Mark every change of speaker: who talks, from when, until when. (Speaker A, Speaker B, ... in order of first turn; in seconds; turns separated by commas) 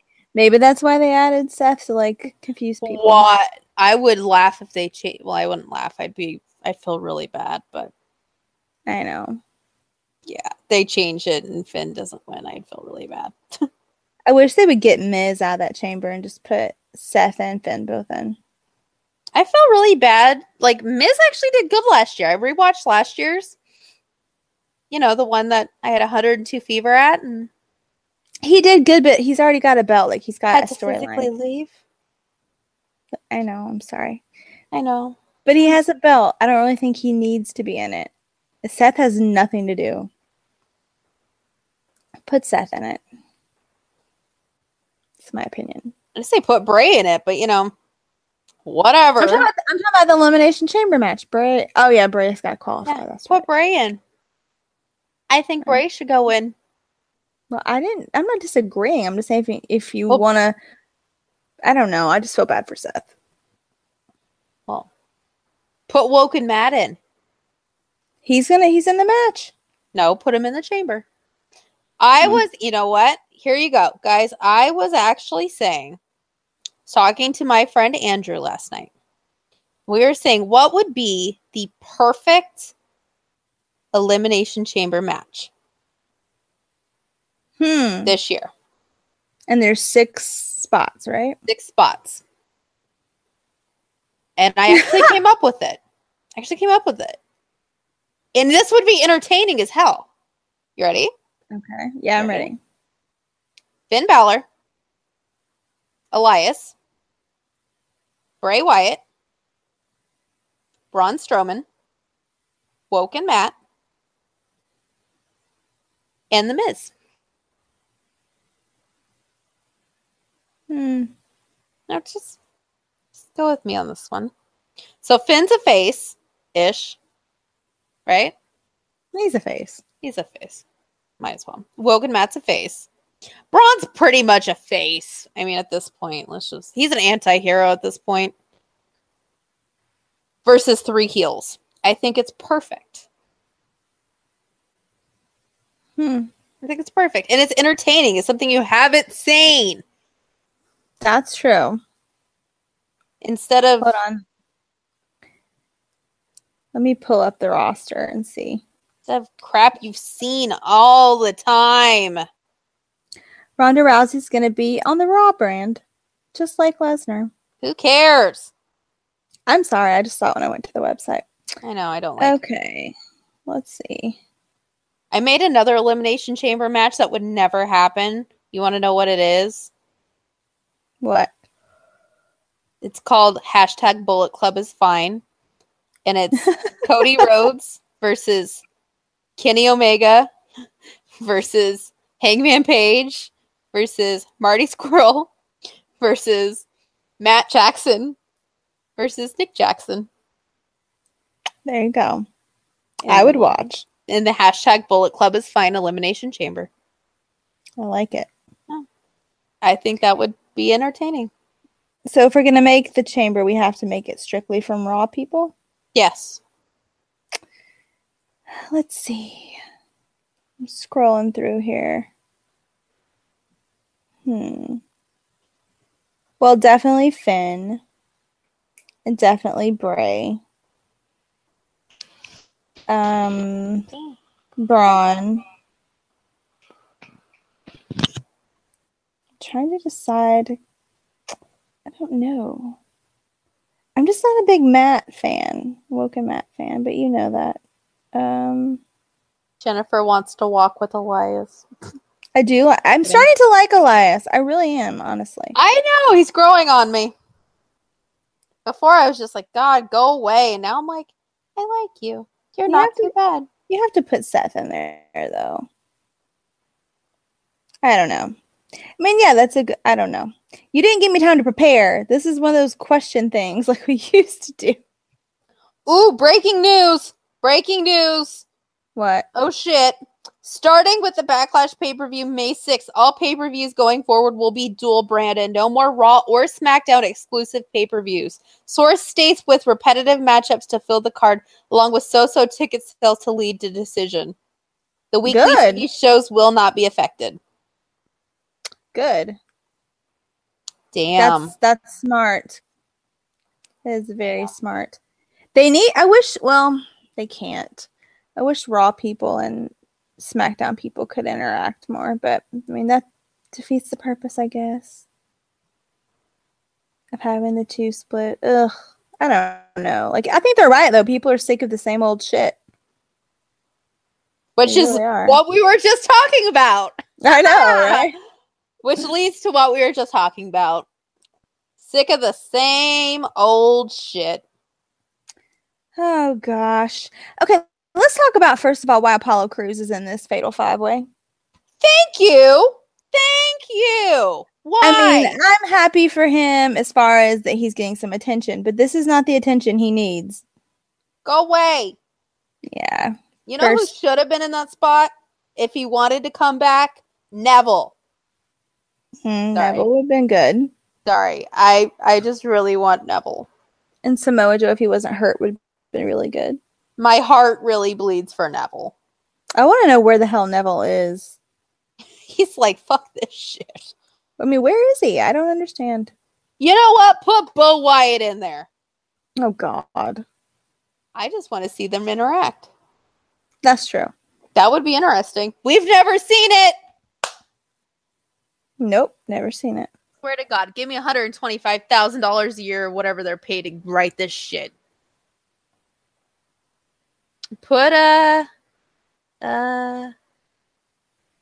Speaker A: 0.3-3.2, Speaker B: 2.8-7.9, Speaker A: 8.8-9.4, Speaker B: 10.3-13.3, Speaker A: 14.2-18.4, Speaker B: 19.3-23.6, Speaker B: 24.9-27.5, Speaker A: 28.4-31.3, Speaker B: 30.5-31.7, Speaker A: 33.3-34.2, Speaker B: 34.7-35.2, Speaker A: 35.5-38.1, Speaker A: 38.6-40.1, Speaker A: 42.3-43.0, Speaker A: 45.2-45.9, Speaker B: 46.1-47.7, Speaker B: 48.6-49.5, Speaker A: 49.2-53.5, Speaker B: 52.9-54.0, Speaker B: 55.3-56.5, Speaker A: 57.5-60.6, Speaker A: 61.6-63.1, Speaker B: 65.9-67.0, Speaker A: 68.2-69.5, Speaker B: 69.9-71.0, Speaker B: 72.0-76.0, Speaker B: 76.8-78.9, Speaker B: 79.9-82.7, Speaker B: 83.9-85.5, Speaker A: 87.6-88.1, Speaker B: 88.0-88.5, Speaker A: 89.5-91.4, Speaker B: 91.4-92.2, Speaker B: 94.4-95.8, Speaker A: 94.7-95.1, Speaker B: 96.4-97.2, Speaker B: 98.3-100.1, Speaker B: 100.8-101.1, Speaker A: 101.5-102.6, Speaker B: 102.2-102.5, Speaker B: 103.9-104.5, Speaker B: 106.1-106.7, Speaker B: 108.4-109.0, Speaker B: 110.9-111.6, Speaker B: 112.9-113.5, Speaker B: 116.3-116.9, Speaker A: 120.7-121.1, Speaker B: 121.9-122.4, Speaker B: 123.3-124.3, Speaker B: 125.0-127.0, Speaker B: 128.1-128.3, Speaker A: 129.1-129.8, Speaker B: 130.0-130.6, Speaker B: 131.2-132.9, Speaker B: 133.5-138.3, Speaker B: 140.4-143.1, Speaker A: 146.0-146.3, Speaker B: 146.6-149.8, Speaker A: 151.0-151.8, Speaker B: 153.2-153.9, Speaker A: 153.8-154.2, Speaker A: 156.7-158.6, Speaker B: 159.1-162.2, Speaker A: 163.6-165.8, Speaker A: 166.3-167.3, Speaker B: 167.6-168.5, Speaker A: 169.5-171.2, Speaker B: 171.6-172.4, Speaker A: 172.2-172.9, Speaker A: 173.5-174.2, Speaker B: 175.1-179.7, Speaker A: 181.0-181.3, Speaker B: 182.8-185.2, Speaker B: 186.1-188.6, Speaker B: 189.4-190.3, Speaker B: 191.2-195.3, Speaker B: 196.0-196.6, Speaker B: 197.2-198.2, Speaker B: 199.0-200.1, Speaker A: 201.6-202.2, Speaker A: 203.1-203.8, Speaker B: 203.1-203.5, Speaker B: 204.1-206.7, Speaker A: 207.8-208.3, Speaker B: 209.6-211.3, Speaker A: 212.1-215.5, Speaker B: 215.9-216.4, Speaker A: 218.7-219.6, Speaker A: 220.6-222.1, Speaker A: 224.2-224.8, Speaker A: 226.4-227.8, Speaker A: 229.1-230.4, Speaker A: 232.9-233.9, Speaker A: 234.6-235.4, Speaker A: 239.4-240.6, Speaker A: 241.9-242.8, Speaker A: 243.9-247.6, Speaker A: 248.1-248.8, Speaker B: 249.6-251.6, Speaker A: 252.3-255.5, Speaker B: 255.5-257.1, Speaker B: 258.6-263.5, Speaker A: 262.7-263.1, Speaker A: 263.7-265.6, Speaker A: 267.8-268.3, Speaker A: 269.0-274.8, Speaker B: 275.9-278.4, Speaker A: 278.9-279.2, Speaker B: 279.3-294.3, Speaker B: 295.1-297.4, Speaker A: 295.2-295.8, Speaker A: 298.9-299.4, Speaker B: 300.9-301.5, Speaker A: 301.2-302.6, Speaker A: 303.8-305.0, Speaker A: 305.5-315.0, Speaker A: 317.1-322.6, Speaker B: 324.6-328.1, Speaker A: 324.6-325.4, Speaker A: 327.2-328.1, Speaker B: 328.8-330.9, Speaker B: 331.8-334.4, Speaker A: 335.9-341.1, Speaker B: 341.8-345.4, Speaker A: 344.8-350.4, Speaker B: 351.2-352.0, Speaker A: 352.7-353.9, Speaker B: 353.4-357.9, Speaker A: 359.2-360.7, Speaker B: 359.5-359.9, Speaker B: 361.1-363.5, Speaker A: 364.0-366.6, Speaker B: 367.0-368.9, Speaker A: 369.6-371.3, Speaker B: 372.3-373.9, Speaker A: 374.4-376.1, Speaker B: 376.6-378.7, Speaker A: 379.4-380.2, Speaker B: 381.1-382.7, Speaker A: 383.6-384.1, Speaker B: 384.5-386.7, Speaker A: 388.8-389.9, Speaker B: 390.2-394.7, Speaker B: 397.6-398.5, Speaker B: 399.4-400.1